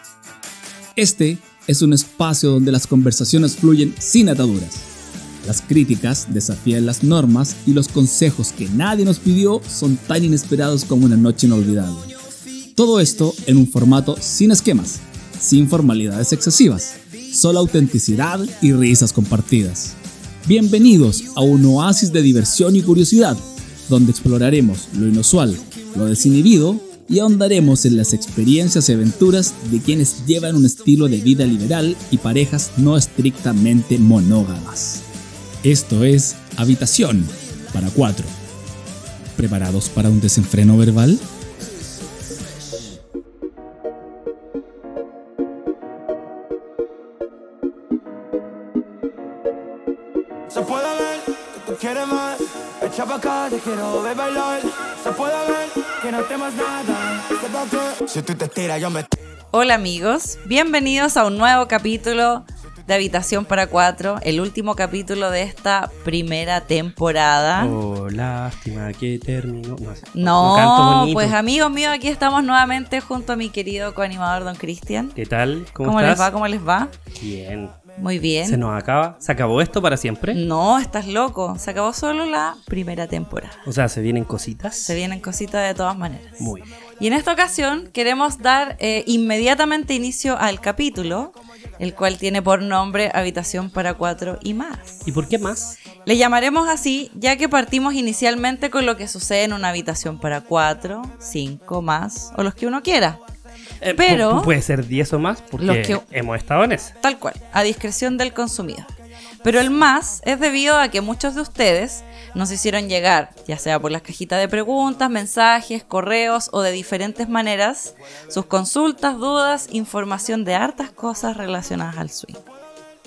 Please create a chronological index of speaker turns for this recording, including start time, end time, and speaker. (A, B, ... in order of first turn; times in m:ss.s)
0:01.0-0:04.9 A
0:05.4-0:12.1 A
0:12.8-0:35.0 A
0:35.6-0:38.3 A
0:39.4-0:41.2 A
0:50.5-0:59.1 B
0:59.5-1:07.8 C
1:07.6-1:11.4 D
1:10.1-1:15.2 C
1:15.1-1:16.3 D
1:15.8-1:16.9 C
1:17.2-1:17.7 D
1:18.0-1:18.6 C
1:18.4-1:20.4 D
1:20.3-1:23.6 C
1:23.6-1:25.0 D
1:24.8-1:35.1 C
1:26.4-1:26.6 D
1:35.0-1:35.8 D
1:36.0-1:43.2 C
1:43.8-1:47.0 D
1:43.9-1:44.5 C
1:45.6-1:46.0 C
1:47.0-1:48.9 C
1:49.4-2:02.4 C